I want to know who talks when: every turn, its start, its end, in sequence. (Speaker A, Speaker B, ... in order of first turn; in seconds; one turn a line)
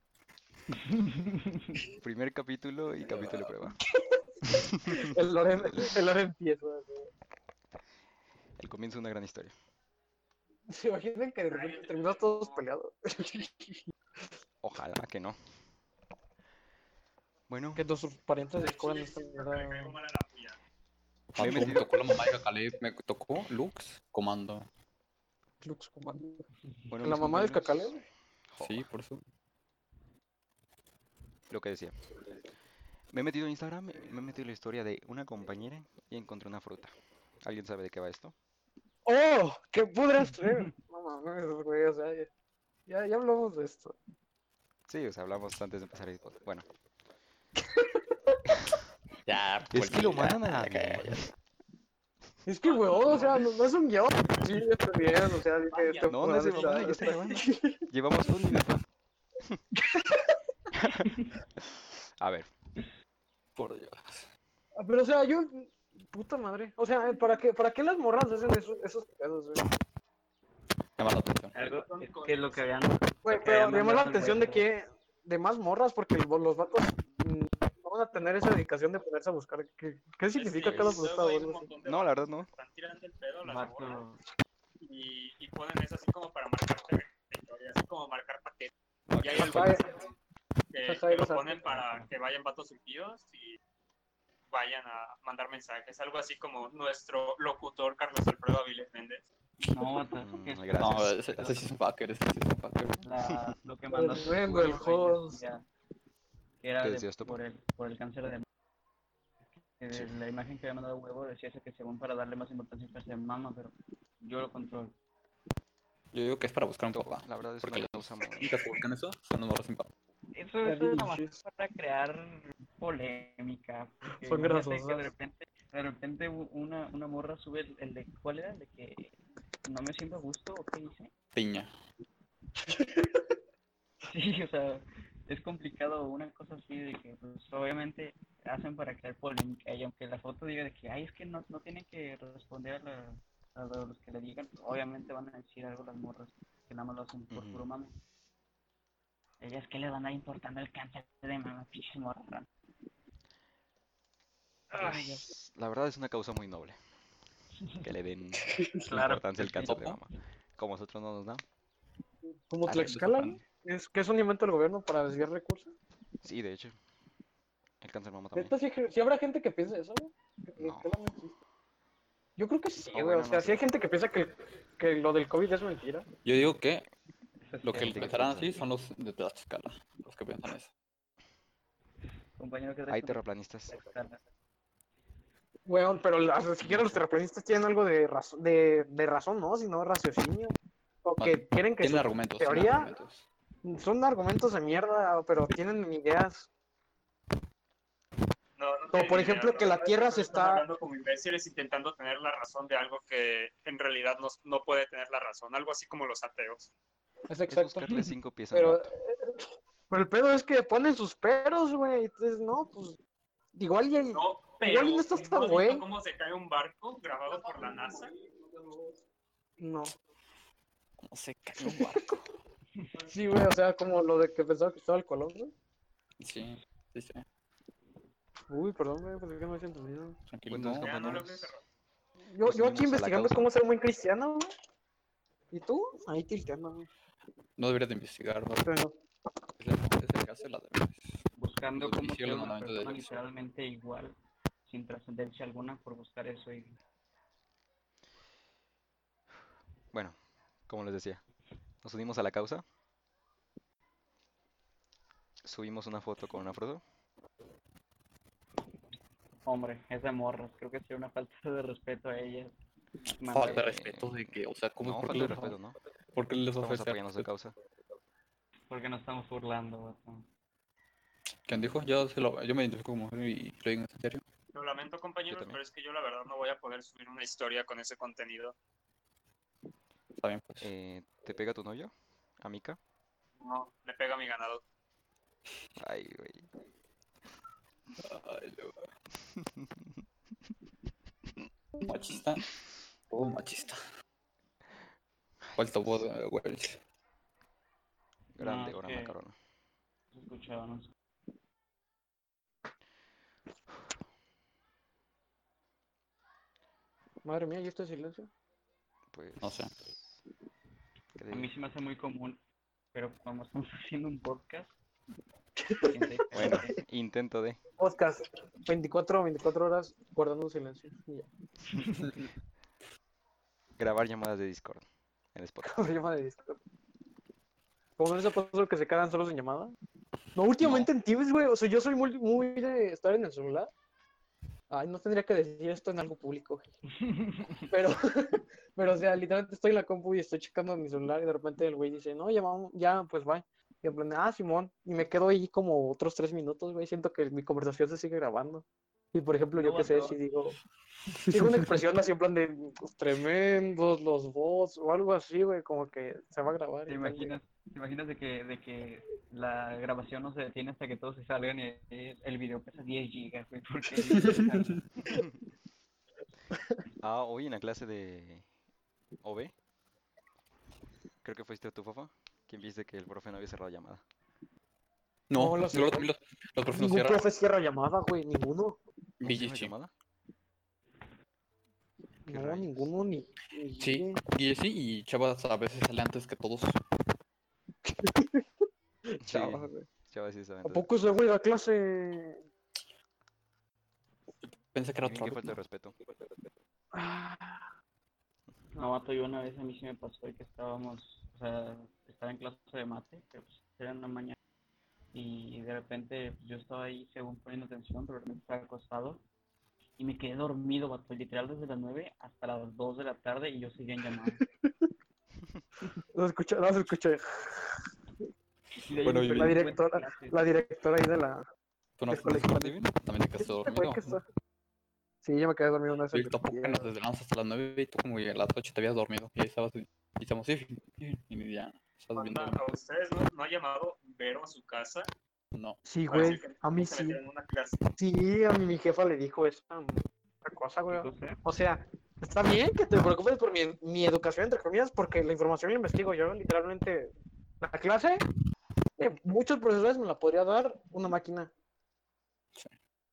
Speaker A: 0.7-1.8
Speaker B: 2.0-3.8
Speaker C: 4.0-7.1
Speaker B: 4.6-5.1
Speaker B: 8.6-9.6
Speaker C: 10.7-13.8
Speaker D: 11.5-12.6
Speaker B: 14.6-15.4
Speaker B: 17.5-17.9
Speaker C: 17.8-20.0
Speaker D: 18.6-20.6
Speaker E: 21.4-24.7
Speaker B: 21.4-21.9
Speaker C: 25.6-26.5
Speaker B: 26.9-28.8
Speaker C: 27.0-28.0
Speaker E: 28.6-29.2
Speaker B: 31.5-32.1
Speaker B: 33.1-38.4
Speaker C: 39.0-42.3
Speaker A: 40.3-40.7
Speaker C: 42.9-44.0
Speaker B: 44.9-46.7
Speaker E: 49.3-51.2
Speaker B: 49.7-51.3
Speaker C: 52.5-57.8
Speaker D: 52.6-53.5
Speaker D: 55.7-57.4
Speaker B: 56.1-58.8
Speaker C: 59.8-60.4
Speaker B: 60.8-62.5
Speaker E: 63.6-64.3
Speaker C: 64.8-69.6
Speaker E: 71.0-71.5
Speaker A: 71.5-74.7
Speaker D: 71.6-72.9
Speaker C: 73.2-81.7
Speaker D: 80.3-84.0
Speaker B: 80.7-81.0
Speaker B: 81.8-82.5
Speaker A: 83.4-84.2
Speaker D: 84.8-90.1
Speaker E: 89.2-89.4
Speaker C: 89.3-89.9
Speaker D: 90.7-93.6
Speaker C: 90.9-91.6
Speaker A: 91.7-92.1
Speaker D: 94.5-99.2
Speaker A: 99.7-101.6
Speaker B: 100.2-101.2
Speaker E: 100.8-103.0
Speaker A: 103.0-105.7
Speaker B: 103.3-103.5
Speaker C: 103.9-105.4
Speaker A: 106.6-108.5
Speaker B: 106.8-107.4
Speaker A: 109.6-115.0
Speaker E: 116.1-119.9
Speaker B: 116.9-118.6
Speaker A: 120.3-129.2
Speaker C: 120.6-121.4
Speaker C: 124.1-125.1
Speaker A: 129.7-131.1
Speaker E: 131.3-131.7
Speaker C: 132.7-133.1
Speaker A: 134.1-147.9
Speaker B: 147.3-147.7
Speaker A: 149.4-152.5
Speaker C: 154.7-155.3
Speaker A: 154.8-155.2
Speaker B: 154.8-157.0
Speaker A: 157.6-157.9
Speaker B: 157.8-161.4
Speaker A: 158.8-159.8
Speaker E: 159.6-160.0
Speaker C: 162.5-165.7
Speaker E: 162.7-163.4
Speaker B: 166.2-166.8
Speaker B: 167.8-168.6
Speaker C: 168.3-171.4
Speaker B: 170.6-170.9
Speaker C: 172.4-176.1
Speaker B: 172.9-173.7
Speaker E: 176.2-176.9
Speaker A: 177.4-178.3
Speaker E: 177.6-180.7
Speaker B: 177.7-178.6
Speaker A: 182.4-184.2
Speaker B: 182.9-183.8
Speaker C: 185.7-192.9
Speaker B: 186.6-187.0
Speaker E: 191.2-193.3
Speaker C: 193.6-196.5
Speaker D: 198.6-206.7
Speaker C: 198.9-200.7
Speaker C: 207.3-207.9
Speaker B: 207.5-208.9
Speaker C: 208.5-209.4
Speaker C: 209.9-213.0
Speaker C: 213.6-215.8
Speaker D: 214.1-218.1
Speaker C: 219.6-219.9
Speaker E: 221.0-222.2
Speaker C: 221.6-222.2
Speaker C: 223.0-225.5
Speaker E: 226.2-227.2
Speaker C: 228.5-230.2
Speaker E: 230.3-230.9
Speaker B: 230.5-231.5
Speaker D: 230.8-231.6
Speaker C: 232.3-234.5
Speaker B: 232.4-233.5
Speaker C: 235.5-236.9
Speaker E: 237.6-238.7
Speaker C: 238.7-238.9
Speaker E: 239.6-241.2
Speaker A: 241.4-244.2
Speaker E: 241.8-243.2
Speaker A: 244.7-246.8
Speaker B: 249.9-251.2
Speaker B: 251.8-252.6
Speaker B: 255.4-256.8
Speaker A: 259.4-262.6
Speaker A: 263.1-263.7
Speaker E: 263.3-265.6
Speaker B: 263.4-265.8
Speaker E: 266.1-267.3
Speaker B: 266.6-267.6
Speaker A: 268.7-270.3
Speaker E: 271.5-274.2
Speaker D: 274.5-278.6
Speaker B: 275.3-275.6
Speaker E: 280.2-280.7
Speaker B: 280.6-282.8
Speaker D: 283.4-284.6
Speaker B: 285.8-286.5
Speaker E: 288.0-288.9
Speaker B: 289.4-289.6
Speaker E: 291.8-292.5
Speaker E: 293.1-293.8
Speaker B: 295.4-296.1
Speaker E: 295.6-296.8
Speaker B: 298.4-299.4
Speaker A: 298.4-299.2
Speaker A: 300.1-300.9
Speaker C: 307.2-308.3
Speaker B: 309.1-310.2
Speaker E: 309.4-309.8
Speaker B: 311.2-311.5
Speaker A: 311.3-312.4
Speaker A: 312.9-314.7
Speaker C: 315.6-316.6
Speaker A: 315.9-316.8
Speaker B: 316.3-317.6
Speaker C: 317.8-321.3
Speaker B: 323.8-325.9
Speaker C: 325.6-326.6
Speaker C: 328.0-329.8
Speaker C: 330.4-333.7
Speaker C: 334.7-336.7
Speaker A: 337.0-337.7
Speaker C: 337.7-350.6
Speaker A: 349.6-350.2
Speaker C: 351.3-357.4
Speaker A: 356.9-364.9
Speaker B: 367.0-368.5
Speaker B: 369.2-369.5
Speaker B: 371.2-374.0
Speaker E: 375.3-377.3
Speaker C: 375.3-376.1
Speaker C: 376.7-378.8
Speaker E: 379.2-379.7
Speaker B: 379.2-379.9
Speaker B: 382.3-382.9
Speaker C: 382.3-384.2
Speaker E: 383.8-386.8
Speaker C: 387.9-388.4
Speaker C: 389.1-389.9
Speaker B: 389.2-390.9
Speaker C: 390.6-392.4
Speaker E: 394.5-395.6
Speaker B: 395.0-396.0
Speaker C: 396.9-397.7
Speaker A: 398.8-404.4
Speaker A: 405.1-409.2
Speaker A: 410.0-414.4
Speaker C: 416.1-417.8
Speaker A: 418.8-420.4
Speaker E: 419.0-419.6
Speaker C: 419.3-421.4
Speaker E: 422.0-424.2
Speaker C: 422.1-422.8
Speaker C: 423.4-424.2
Speaker C: 425.2-426.9
Speaker E: 426.1-432.6
Speaker D: 432.1-435.1
Speaker E: 435.5-436.4
Speaker C: 435.9-437.2
Speaker D: 436.1-437.8
Speaker C: 438.0-448.2
Speaker A: 440.9-441.4
Speaker C: 449.0-451.5